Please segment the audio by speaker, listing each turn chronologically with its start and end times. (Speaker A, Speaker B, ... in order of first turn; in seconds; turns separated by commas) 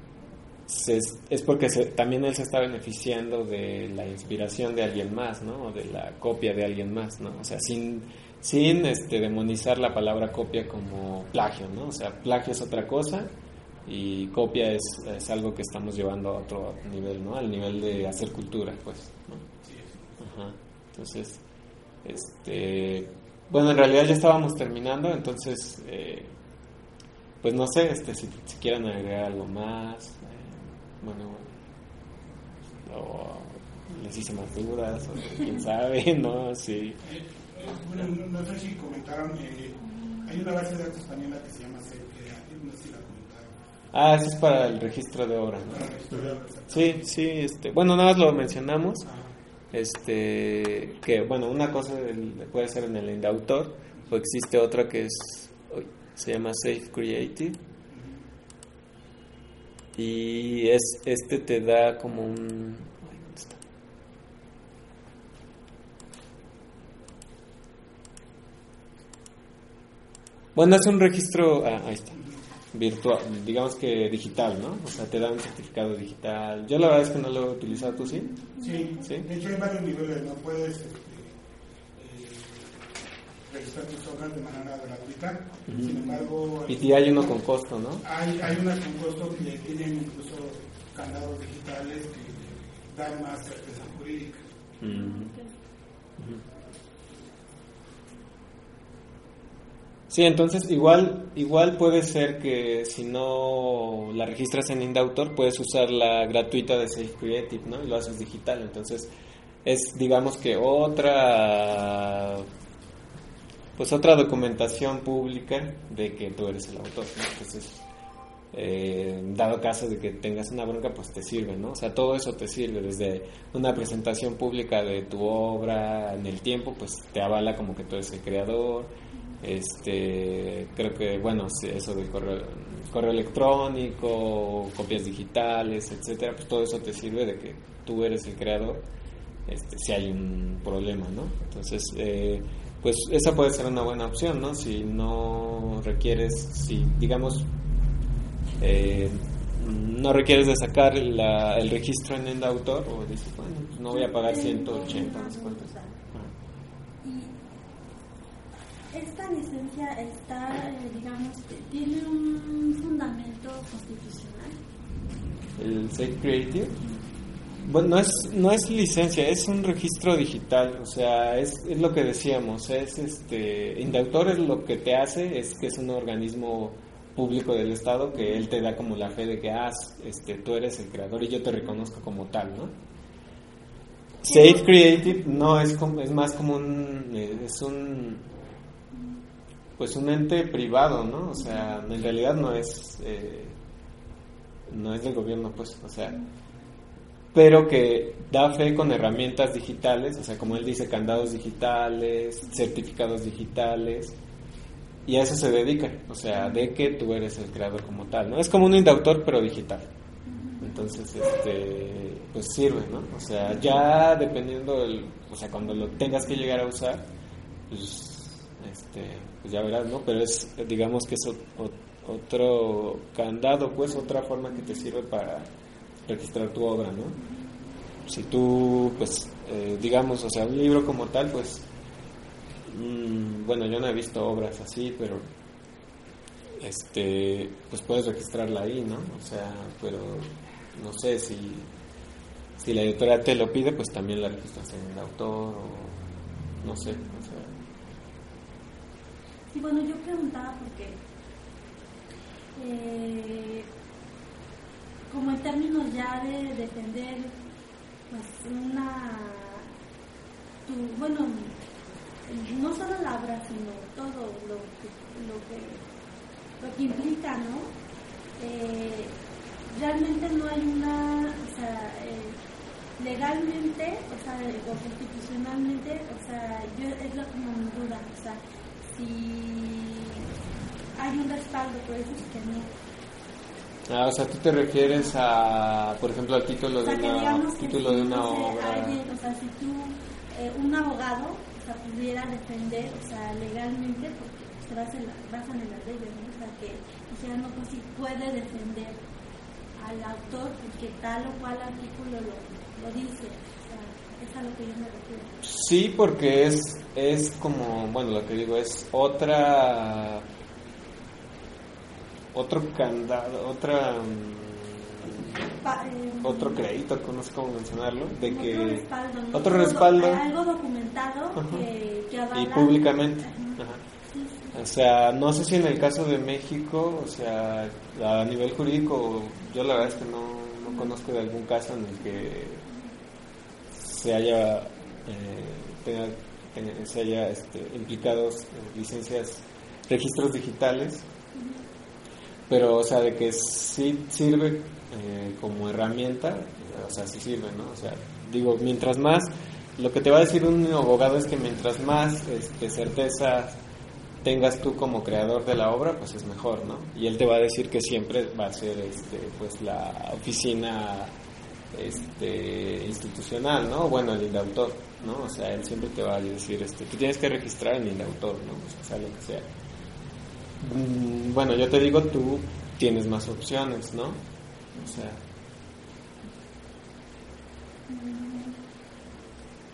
Speaker A: 0.7-13.3, Speaker A: 13.8-19.5, Speaker B: 19.6-20.1, Speaker A: 20.2-21.4, Speaker A: 22.0-26.3, Speaker A: 27.4-31.5, Speaker A: 32.9-37.0, Speaker B: 37.0-43.6, Speaker A: 43.9-49.1, Speaker B: 45.7-47.1, Speaker B: 49.0-49.3, Speaker A: 49.7-57.6, Speaker B: 57.9-58.2, Speaker A: 60.0-63.6, Speaker A: 70.5-72.2, Speaker A: 72.7-78.5, Speaker C: 78.5-78.9, Speaker B: 78.6-81.4, Speaker A: 79.0-79.3, Speaker B: 82.0-82.8, Speaker B: 83.5-87.3, Speaker A: 85.7-88.0, Speaker B: 88.0-94.5, Speaker A: 94.8-95.3, Speaker C: 94.9-95.5, Speaker A: 100.1-109.1, Speaker A: 109.6-112.5, Speaker A: 113.8-117.8, Speaker A: 118.5-138.8, Speaker A: 139.5-147.5, Speaker A: 148.6-156.3, Speaker C: 153.9-155.9, Speaker C: 157.0-157.3, Speaker C: 158.9-164.6, Speaker A: 165.6-166.8, Speaker A: 167.6-182.7, Speaker A: 184.2-188.3, Speaker C: 184.3-185.2, Speaker A: 189.8-193.6, Speaker A: 194.7-196.2, Speaker A: 197.3-204.2, Speaker A: 205.1-209.9, Speaker C: 210.3-210.7, Speaker A: 210.6-217.1, Speaker A: 217.7-225.5, Speaker A: 226.1-227.2, Speaker A: 228.1-231.7, Speaker A: 232.7-235.3, Speaker A: 236.6-241.7, Speaker A: 242.6-246.0, Speaker A: 246.6-247.5, Speaker C: 249.5-251.0, Speaker C: 252.6-253.7, Speaker C: 255.1-257.4, Speaker C: 258.1-259.7, Speaker C: 260.6-261.6, Speaker C: 262.2-265.8, Speaker C: 266.6-267.7, Speaker C: 268.4-269.2, Speaker C: 269.7-272.4, Speaker C: 273.0-280.2, Speaker C: 280.9-282.7, Speaker A: 283.9-289.0, Speaker C: 284.9-285.1, Speaker C: 286.8-299.0, Speaker C: 299.8-305.4, Speaker A: 305.4-310.3, Speaker A: 312.3-315.3, Speaker C: 315.6-316.6, Speaker A: 316.2-320.2, Speaker C: 318.1-324.6, Speaker A: 321.4-321.6, Speaker A: 322.3-323.8, Speaker A: 324.5-332.6, Speaker A: 333.7-341.1, Speaker C: 341.3-341.6, Speaker A: 342.5-353.6, Speaker A: 354.2-361.1, Speaker A: 361.7-369.5, Speaker A: 370.6-374.2, Speaker A: 374.7-375.2, Speaker C: 377.9-378.6